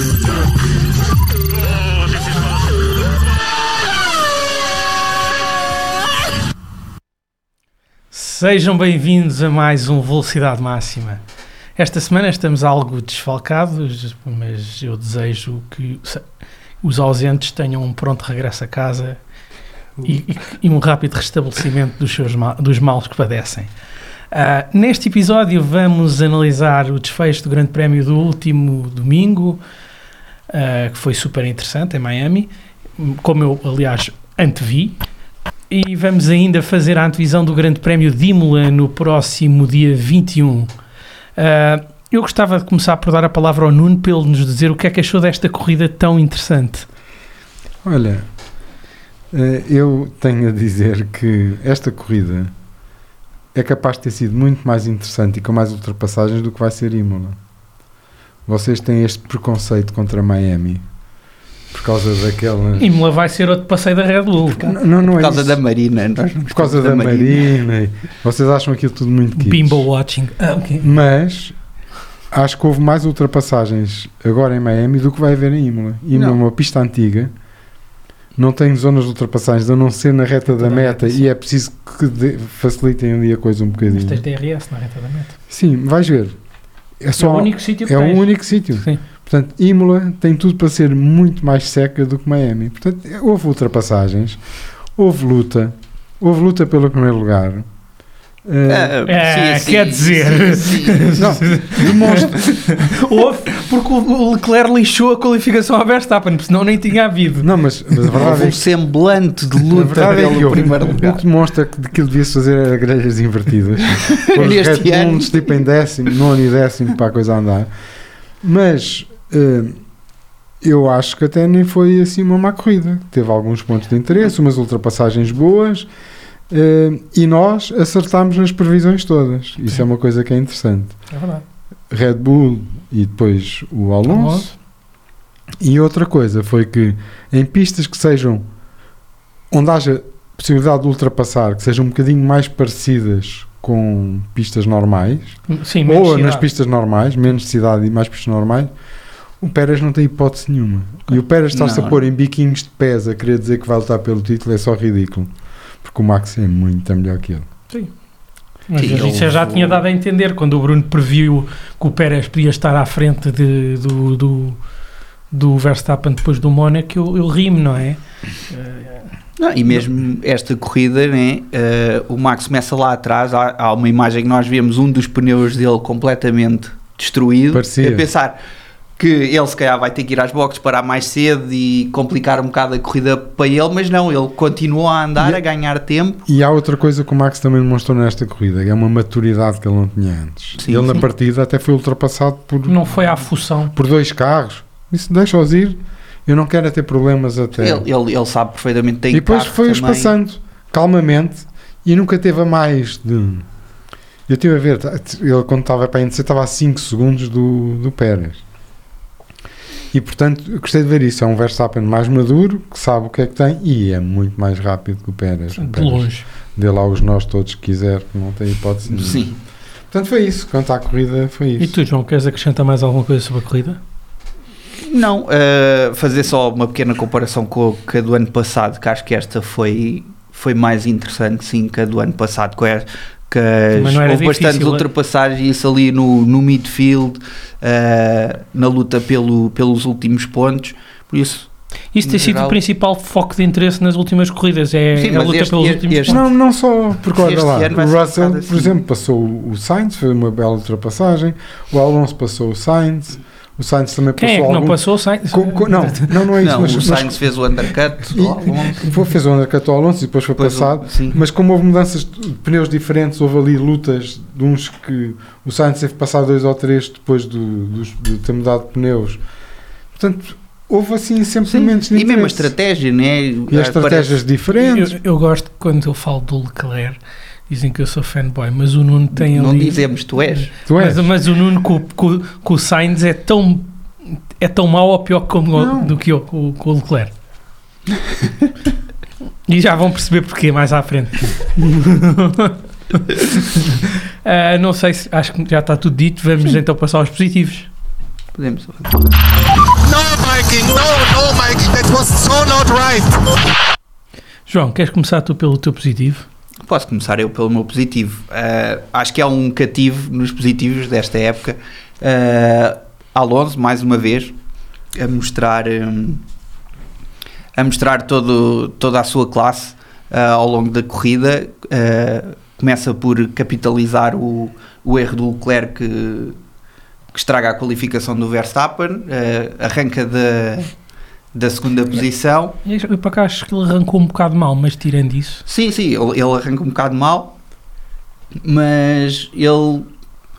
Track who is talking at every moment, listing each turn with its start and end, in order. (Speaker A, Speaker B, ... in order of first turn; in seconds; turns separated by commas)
Speaker A: 8.1-11.2, Speaker A: 11.8-16.2, Speaker A: 16.8-19.2, Speaker A: 20.0-23.7, Speaker A: 24.3-29.6, Speaker A: 30.5-35.0, Speaker A: 35.7-40.7, Speaker A: 41.4-46.9, Speaker B: 47.8-48.2, Speaker B: 49.3-52.5, Speaker B: 53.5-57.4, Speaker B: 58.5-60.8, Speaker B: 61.7-62.9, Speaker A: 62.8-64.6, Speaker C: 64.6-67.5, Speaker B: 64.6-65.6, Speaker B: 66.5-69.9, Speaker A: 69.4-70.9, Speaker B: 70.8-71.5, Speaker B: 72.3-77.3, Speaker C: 76.1-76.4, Speaker B: 78.3-84.2, Speaker A: 80.5-81.2, Speaker A: 83.8-85.3, Speaker B: 85.5-86.4, Speaker B: 87.0-94.4, Speaker A: 87.2-89.0, Speaker B: 95.0-97.7, Speaker B: 98.4-99.0, Speaker C: 98.7-101.2, Speaker A: 99.0-107.5, Speaker B: 101.2-102.4, Speaker B: 107.4-108.6, Speaker C: 108.1-111.2, Speaker B: 109.7-117.7, Speaker C: 113.9-115.6, Speaker B: 118.4-119.8, Speaker B: 120.6-125.9, Speaker B: 126.5-130.9, Speaker A: 131.1-131.4, Speaker B: 131.9-134.5, Speaker A: 134.1-134.5, Speaker B: 135.6-138.4, Speaker B: 139.5-148.7, Speaker A: 145.5-146.5, Speaker B: 149.4-155.3, Speaker C: 151.5-152.0, Speaker B: 155.8-157.5, Speaker A: 158.7-164.6, Speaker C: 158.8-159.8, Speaker A: 165.3-169.1, Speaker C: 169.4-178.4, Speaker B: 177.5-178.1, Speaker C: 179.0-186.2, Speaker B: 186.3-193.1, Speaker C: 190.6-190.9, Speaker A: 192.7-193.7, Speaker B: 193.7-197.8, Speaker C: 197.6-200.1, Speaker B: 199.1-203.4, Speaker B: 204.3-208.4, Speaker B: 209.9-219.3, Speaker A: 215.6-216.2, Speaker C: 218.9-219.4, Speaker B: 219.9-221.8, Speaker A: 221.6-223.8, Speaker C: 224.8-241.5, Speaker A: 233.7-234.8, Speaker A: 241.9-246.2, Speaker C: 242.0-242.6, Speaker C: 245.0-246.2, Speaker B: 246.1-257.2, Speaker C: 247.1-248.7, Speaker A: 254.2-256.2, Speaker C: 256.4-258.9, Speaker B: 258.1-269.2, Speaker C: 260.4-261.2, Speaker B: 269.9-272.5, Speaker C: 271.4-274.2, Speaker B: 273.5-274.9, Speaker A: 274.5-277.0, Speaker A: 277.5-279.8, Speaker C: 279.2-280.5, Speaker B: 280.6-281.1, Speaker A: 280.8-283.7, Speaker A: 284.4-287.1, Speaker B: 285.5-285.9, Speaker A: 289.5-297.7, Speaker C: 298.3-298.9, Speaker D: 299.8-303.2, Speaker A: 304.5-306.2, Speaker C: 306.6-314.3, Speaker C: 314.9-316.2, Speaker C: 317.5-326.4, Speaker C: 327.1-330.7, Speaker C: 331.3-332.6, Speaker A: 332.6-335.4, Speaker C: 335.5-337.3, Speaker C: 338.4-339.9